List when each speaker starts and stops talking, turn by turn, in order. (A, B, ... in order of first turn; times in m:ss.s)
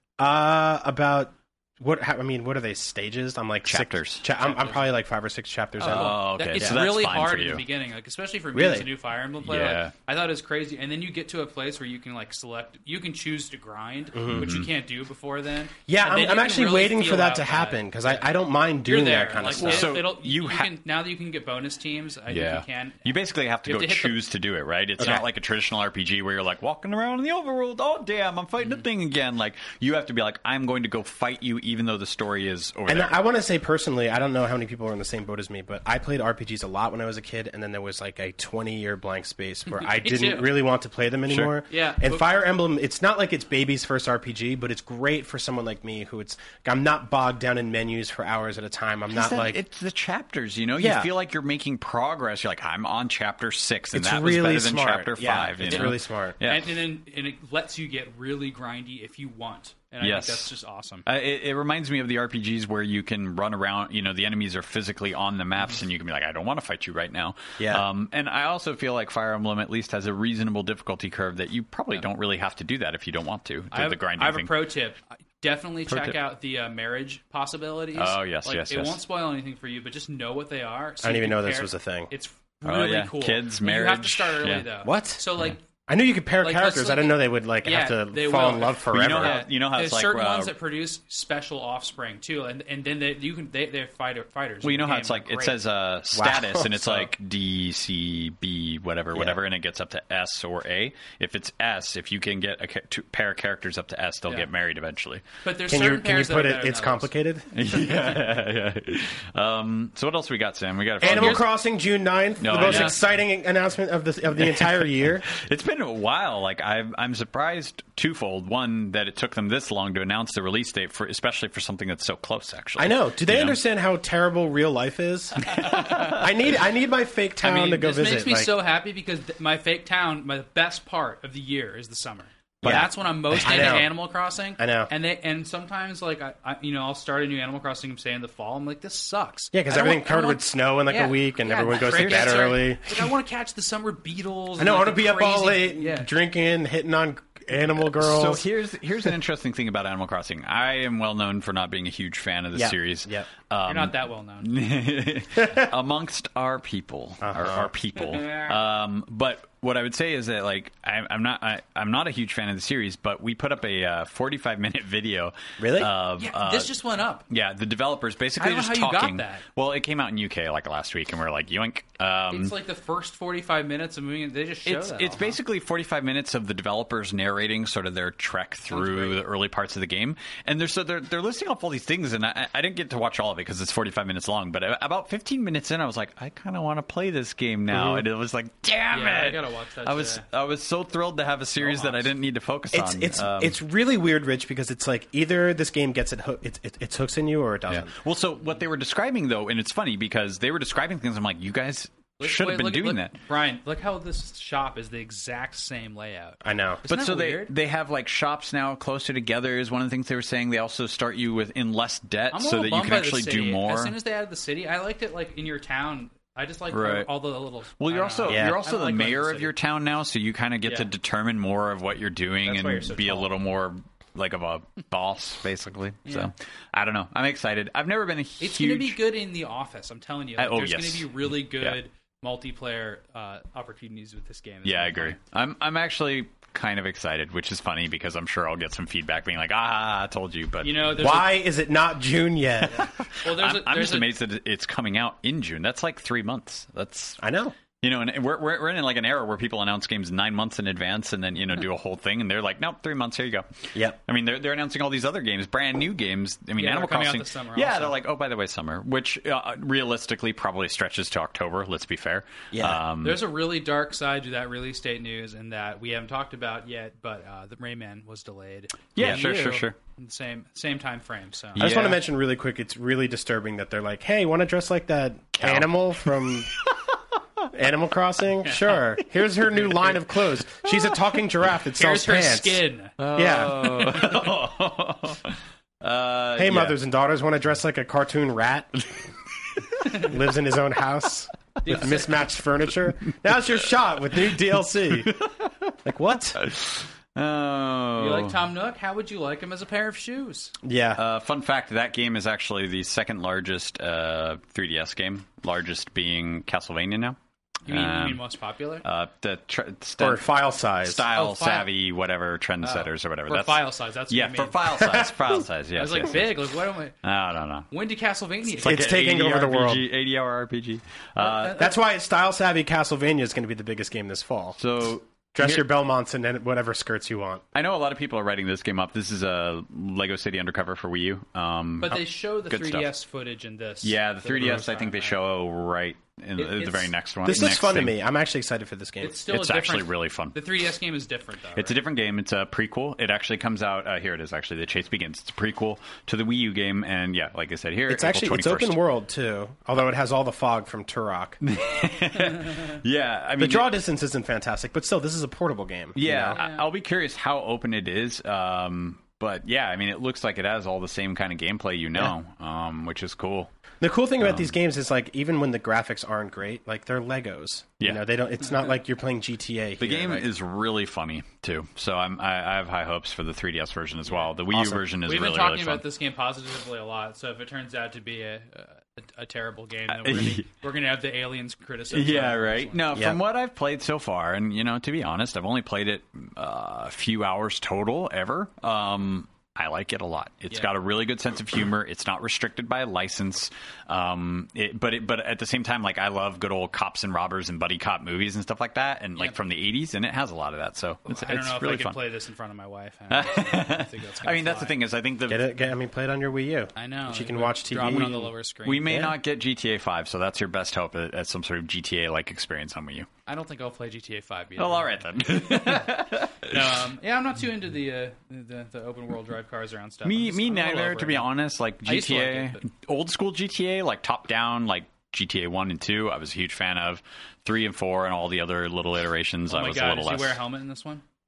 0:00.2-0:06.8 A
0:03.6-0:04.2 B
0:04.4-0:04.8 C
0:05.8-0:18.3 C
0:05.8-0:07.6 B
0:08.5-0:08.9 A
0:09.4-0:09.9 B
0:14.1-0:14.6 A
0:14.3-0:14.7 B
0:15.9-0:20.0 A
0:18.8-0:24.2 C
0:19.6-0:20.7 B
0:22.3-0:33.2 B
0:25.0-0:25.2 A
0:32.9-0:49.6 A
0:39.7-0:40.5 C
0:41.7-0:42.2 C
0:49.1-0:56.7 B
0:50.8-0:51.1 A
0:53.9-0:56.4 A
0:55.7-1:01.0 C
1:00.0-1:00.5 B
1:01.0-1:14.5 B
1:07.6-1:07.8 A
1:13.7-1:25.6 C
1:15.9-1:16.1 B
1:18.0-1:19.0 B
1:21.0-1:22.1 A
1:22.6-1:24.6 B
1:24.8-1:25.2 A
1:25.9-1:29.4 A
1:26.4-1:35.6 C
1:28.9-1:30.5 B
1:34.6-1:45.2 B
1:36.1-1:37.1 A
1:39.1-1:39.4 A
1:45.4-1:47.1 C
1:45.7-1:47.5 A
1:47.5-1:51.5 B
1:51.0-1:55.3 A
1:51.0-1:51.4 C
1:52.4-1:53.0 B
1:52.6-1:52.9 C
1:54.4-2:03.6 B
2:02.8-2:08.5 A
2:05.5-2:06.2 B
2:05.5-2:06.0 C
2:07.4-2:26.1 C
2:12.6-2:13.9 A
2:14.6-2:14.9 A
2:19.5-2:23.1 A
2:21.8-2:22.5 B
2:24.6-2:28.4 A
2:28.0-2:46.7 B
2:32.5-2:33.3 A
2:33.7-2:34.5 C
2:37.2-2:37.7 A
2:38.0-2:38.6 C
2:45.6-2:45.9 A
2:46.2-2:47.2 C
2:47.3-2:52.5 B
2:48.4-2:49.4 C
2:52.3-2:55.4 C
2:54.6-3:13.6 B
2:58.7-2:59.2 C
3:07.7-3:08.0 A
3:08.9-3:10.2 C
3:11.6-3:12.1 C
3:12.7-3:17.9 A
3:17.7-3:23.2 B
3:22.2-3:27.5 C
3:26.4-3:26.8 A
3:26.9-3:34.0 B
3:32.3-3:39.5 C
3:36.7-3:37.1 B
3:37.8-3:49.0 B
3:38.2-3:38.6 A
3:42.4-3:43.3 C
3:46.0-3:46.3 C
3:48.4-3:55.2 C
3:50.4-3:51.8 B
3:54.6-4:01.2 B
4:00.6-4:01.4 C
4:01.0-4:02.9 A
4:02.7-4:04.1 C
4:03.0-4:07.2 B
4:07.2-4:07.5 A
4:07.8-4:23.2 B
4:16.6-4:18.0 C
4:22.5-4:22.8 A
4:23.0-4:31.6 C
4:28.9-4:29.8 B
4:29.0-4:29.2 A
4:31.6-4:32.0 B
4:31.6-4:36.5 A
4:35.3-4:36.8 B
4:37.5-4:42.6 A
4:38.4-4:38.8 C
4:41.7-4:42.9 C
4:43.0-4:46.8 B
4:43.1-4:44.2 A
4:46.4-4:48.8 A
4:49.6-4:50.0 B
4:49.9-4:55.1 A
4:51.6-4:52.2 C
4:54.9-4:55.7 B
4:55.8-4:56.4 A
4:56.4-4:58.4 B
4:58.0-5:00.5 C
5:00.6-5:01.0 A
5:00.9-5:08.2 B
5:07.7-5:08.8 C
5:08.8-5:10.3 B
5:10.0-5:11.1 A
5:10.8-5:16.5 B
5:11.1-5:11.7 C
5:12.6-5:14.6 C
5:14.8-5:15.1 A
5:15.8-5:16.9 C
5:17.0-5:17.7 B
5:17.7-5:19.0 C
5:18.6-5:21.7 B
5:18.6-5:19.9 A
5:21.2-5:21.7 C
5:21.6-5:24.6 A
5:24.6-5:25.7 B
5:25.3-5:27.4 A
5:27.5-5:32.9 B
5:31.8-5:35.2 C
5:33.8-5:37.9 B
5:36.4-5:36.9 C
5:37.2-5:39.2 A
5:39.0-5:41.8 C
5:39.3-5:40.4 B
5:41.6-5:48.8 B
5:47.9-5:51.4 A
5:51.4-5:53.7 B
5:53.4-5:56.4 A
5:56.0-6:03.5 B
5:56.3-5:56.6 C
6:03.8-6:10.3 A
6:04.2-6:04.5 B
6:09.8-6:15.8 B
6:14.0-6:14.3 C
6:14.5-6:14.8 A
6:15.0-6:22.8 C
6:19.9-6:20.5 B
6:21.9-6:42.0 B
6:22.9-6:23.2 A
6:41.0-6:44.7 C
6:43.1-6:45.4 B
6:45.3-6:48.3 A
6:46.8-6:48.9 C
6:47.8-6:53.1 B
6:48.8-6:49.2 A
6:53.2-7:01.3 C
6:54.6-6:56.8 B
7:00.0-7:10.4 B
7:01.8-7:02.6 C
7:09.5-7:11.0 C